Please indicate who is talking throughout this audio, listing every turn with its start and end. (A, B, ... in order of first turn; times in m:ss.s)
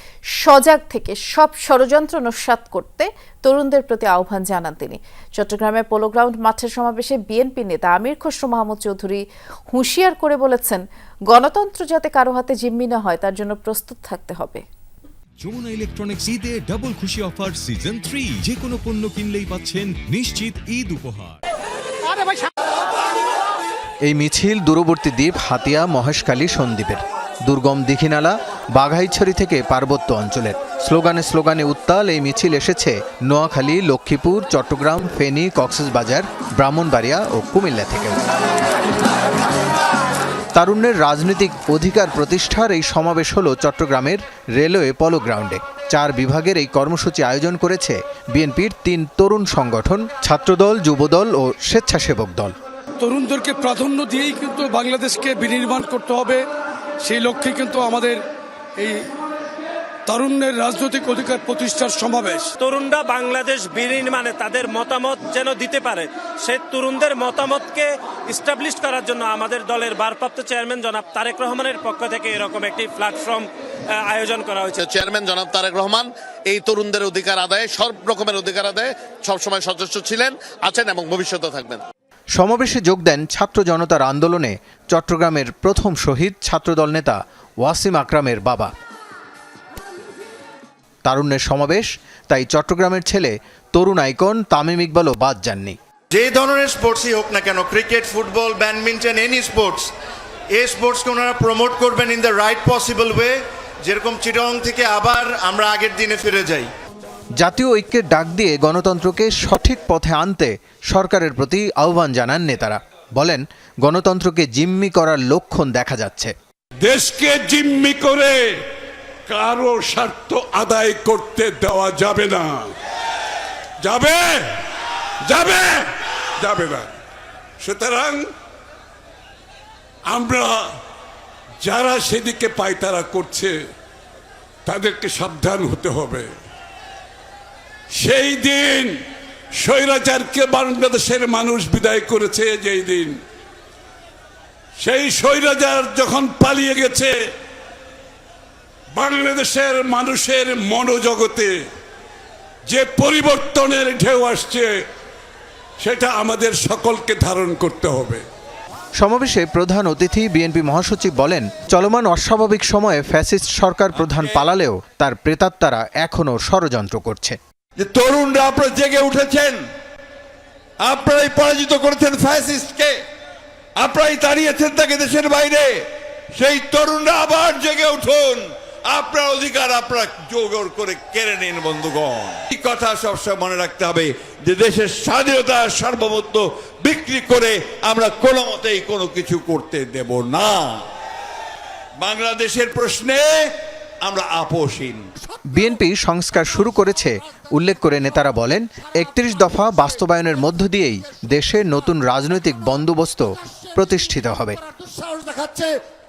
0:00.4-0:14.6 A
0:15.4-0:21.4 B
0:24.1-0:38.2 C
0:40.5-0:52.5 C
0:53.0-0:56.4 D
0:57.0-0:58.2 D
0:58.8-0:59.1 D
1:00.1-1:02.5 D
1:02.6-1:14.8 E
1:14.7-1:21.8 F
1:22.4-1:28.7 C
1:31.0-1:35.8 C
1:36.1-1:39.9 G
1:40.5-1:46.7 G
1:47.4-1:56.3 C
1:56.8-1:58.4 H
1:59.3-2:02.7 H
2:03.8-2:04.6 H
2:05.3-2:06.9 H
2:07.6-2:08.2 H
2:10.1-2:10.7 H
2:11.6-2:13.5 H
2:14.6-2:16.3 H
2:18.0-2:18.9 H
2:19.6-2:23.2 H
2:24.8-2:27.1 H
2:28.9-2:31.5 H
2:32.7-2:34.7 H
2:35.8-2:38.2 H
2:39.0-2:47.4 C
2:43.9-2:44.5 I
2:47.8-2:49.6 I
2:50.8-2:53.0 I
2:53.8-3:10.9 I
3:12.0-3:13.5 I
3:14.0-3:15.1 I
3:15.5-3:24.6 C